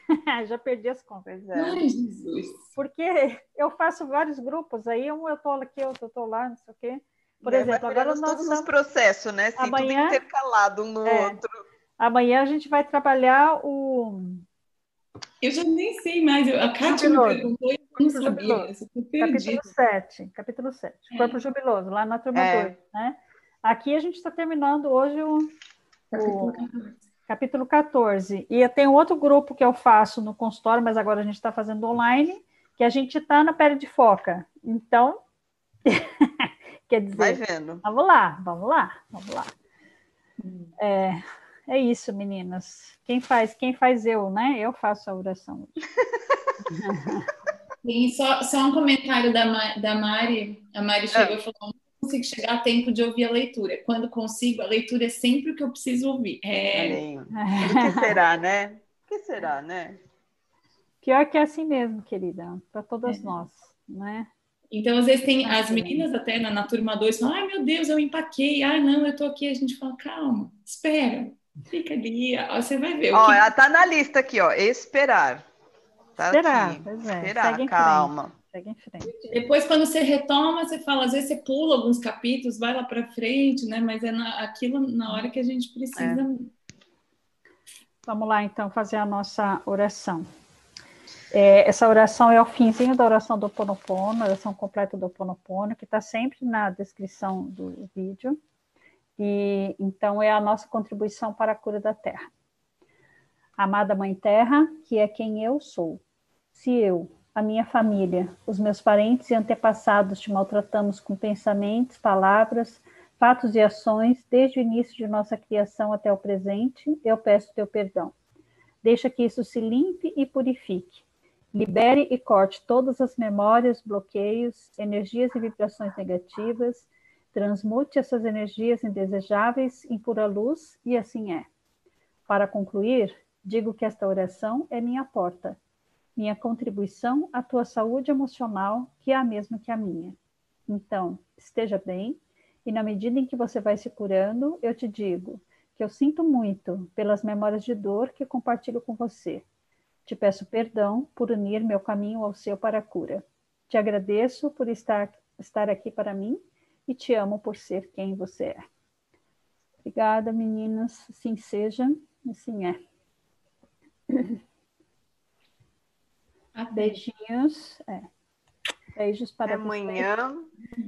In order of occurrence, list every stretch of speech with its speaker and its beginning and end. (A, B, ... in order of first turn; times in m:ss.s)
0:00.3-0:01.2 A
0:01.2-0:01.8 B
0:01.5-0:02.7 C
0:02.8-0:08.7 A
0:07.4-0:11.6 B
0:09.6-0:10.2 A
0:11.0-0:11.4 A
0:12.0-0:14.4 A
0:15.4-0:19.7 C
0:16.8-0:25.5 A
0:21.1-0:21.4 C
0:22.3-0:22.8 B
0:26.1-0:27.0 C
0:26.1-0:26.6 A
0:27.3-0:35.2 A
0:35.8-0:39.5 A
0:37.2-0:37.8 B
0:40.4-0:40.7 C
0:40.8-0:45.8 A
0:46.0-0:46.4 B
0:46.6-0:47.3 A
0:47.8-0:57.0 C
0:51.1-0:51.4 B
0:56.7-1:00.0 B
0:57.3-0:58.2 A
1:01.0-1:04.3 A
1:03.1-1:03.4 C
1:04.7-1:13.4 C
1:05.4-1:06.0 A
1:13.1-1:15.4 B
1:16.2-1:18.3 B
1:16.3-1:19.1 A
1:19.0-1:26.5 C
1:26.0-1:26.2 B
1:28.0-1:30.3 A
1:31.3-1:38.4 A
1:39.2-1:42.3 A
1:43.6-1:46.0 A
1:46.5-1:58.1 A
1:58.8-2:11.5 A
2:12.3-2:15.6 A
2:16.2-2:20.2 A
2:20.7-2:29.4 A
2:30.0-2:38.6 A
2:39.8-2:42.8 A
2:44.1-2:44.4 A
2:46.5-2:47.0 C
2:46.7-2:48.1 A
2:49.0-2:50.1 A
2:49.4-2:50.5 B